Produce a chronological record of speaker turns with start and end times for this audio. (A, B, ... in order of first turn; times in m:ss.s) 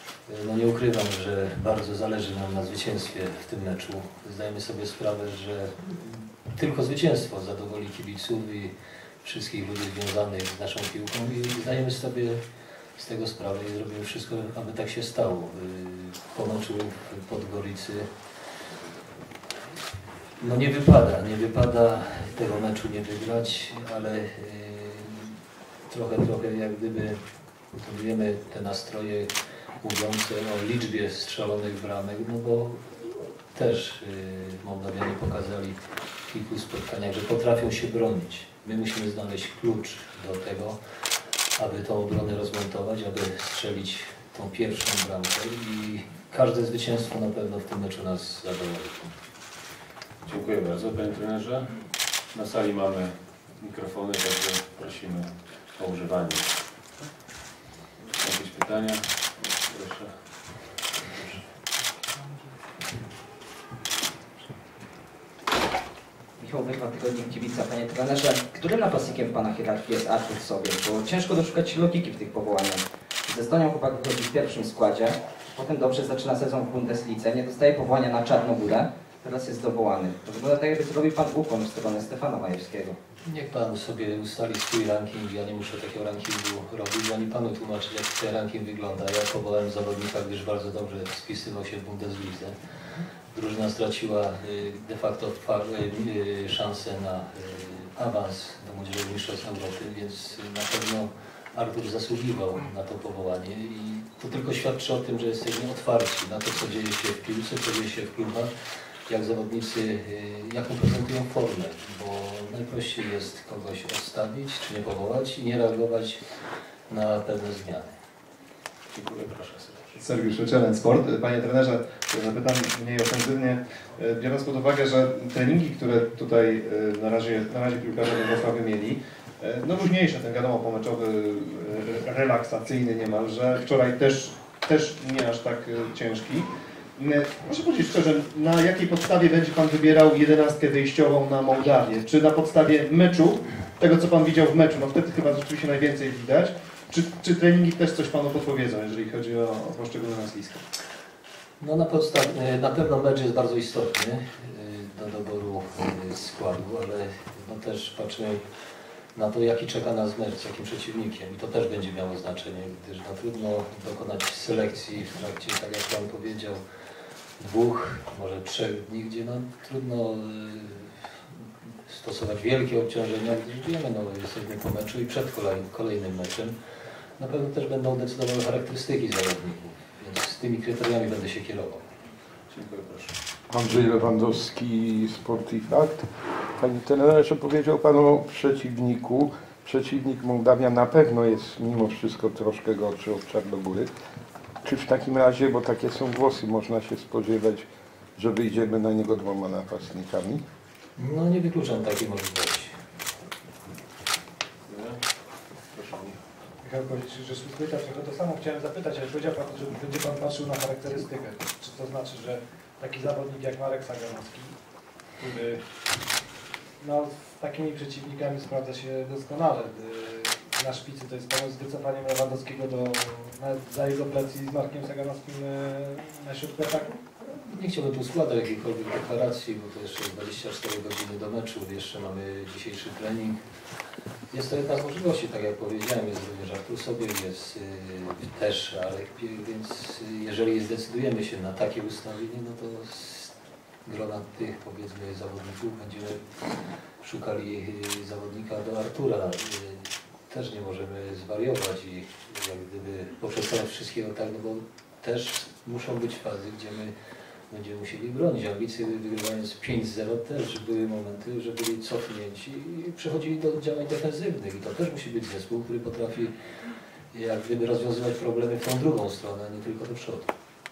0:00.3-0:12.4 A
0:13.0-0:18.1 A
0:20.4-0:25.3 A
0:25.9-0:27.2 A
0:27.7-0:29.3 A
0:29.8-0:32.9 A
0:33.5-0:35.8 A
0:36.3-0:40.8 A
0:41.6-0:49.1 A
0:50.2-0:56.7 B
0:58.1-1:01.4 B
1:06.4-1:23.0 C
1:23.2-1:32.5 A
1:33.3-1:48.5 A
1:49.1-1:56.2 A
1:56.9-1:57.9 A
1:58.9-2:00.0 B
2:00.0-2:30.6 D
2:31.6-2:38.4 A
2:39.1-2:46.6 A
2:47.4-2:50.9 A
2:51.9-2:56.5 A
2:57.2-3:01.8 A
3:02.5-3:03.1 B
3:03.5-3:06.1 E
3:06.6-3:13.9 E
3:14.6-3:20.4 E
3:21.0-3:22.7 A
3:24.7-3:25.0 B
3:25.7-3:26.2 B
3:26.6-3:34.5 F
3:35.2-3:35.6 F
3:36.8-3:47.0 F
3:47.2-3:53.4 A
3:54.3-4:03.3 A
4:03.8-4:06.4 A
4:07.0-4:16.9 A
4:17.5-4:26.3 A
4:27.1-4:30.3 A